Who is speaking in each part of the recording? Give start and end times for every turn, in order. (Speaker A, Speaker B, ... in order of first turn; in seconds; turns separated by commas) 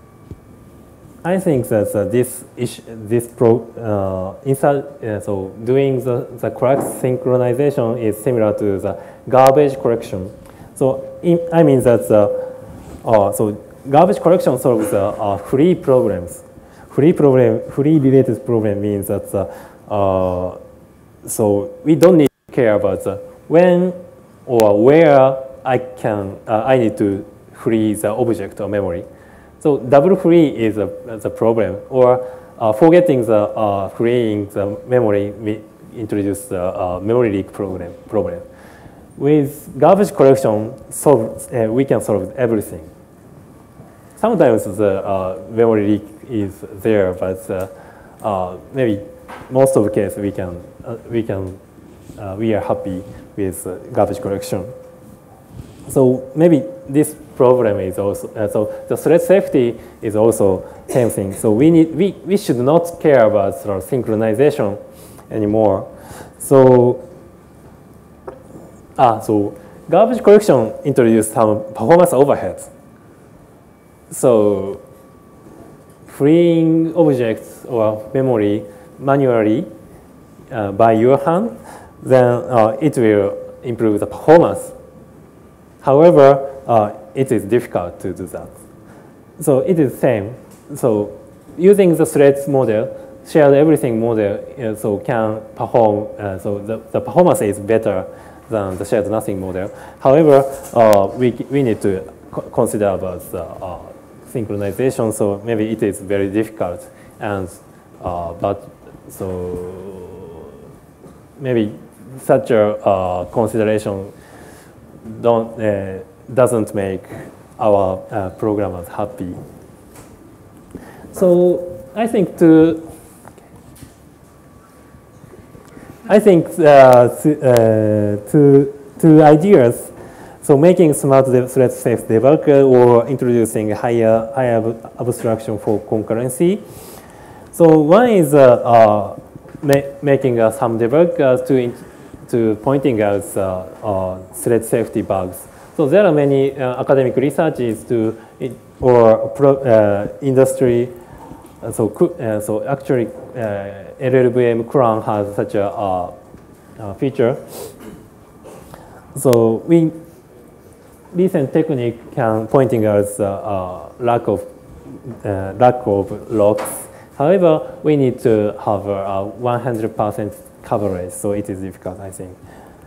Speaker A: 1.2-12.5, Speaker A: 13.0-20.6, Speaker A: 21.2-29.1, Speaker A: 29.6-38.5, Speaker A: 39.2-42.9, Speaker A: 44.2-51.6, Speaker A: 52.2-54.7, Speaker A: 55.9-67.0, Speaker A: 69.0-72.7, Speaker A: 74.1-74.8, Speaker A: 76.0-79.7, Speaker A: 80.5-84.7, Speaker A: 85.8-88.5, Speaker A: 89.4-110.5, Speaker A: 111.4-114.1, Speaker A: 115.0-119.4, Speaker A: 121.1-122.8, Speaker A: 126.0-129.9, Speaker A: 130.4-136.6, Speaker A: 137.5-150.9, Speaker A: 151.6-156.2, Speaker A: 156.8-157.7, Speaker A: 159.1-160.0, Speaker A: 161.1-172.4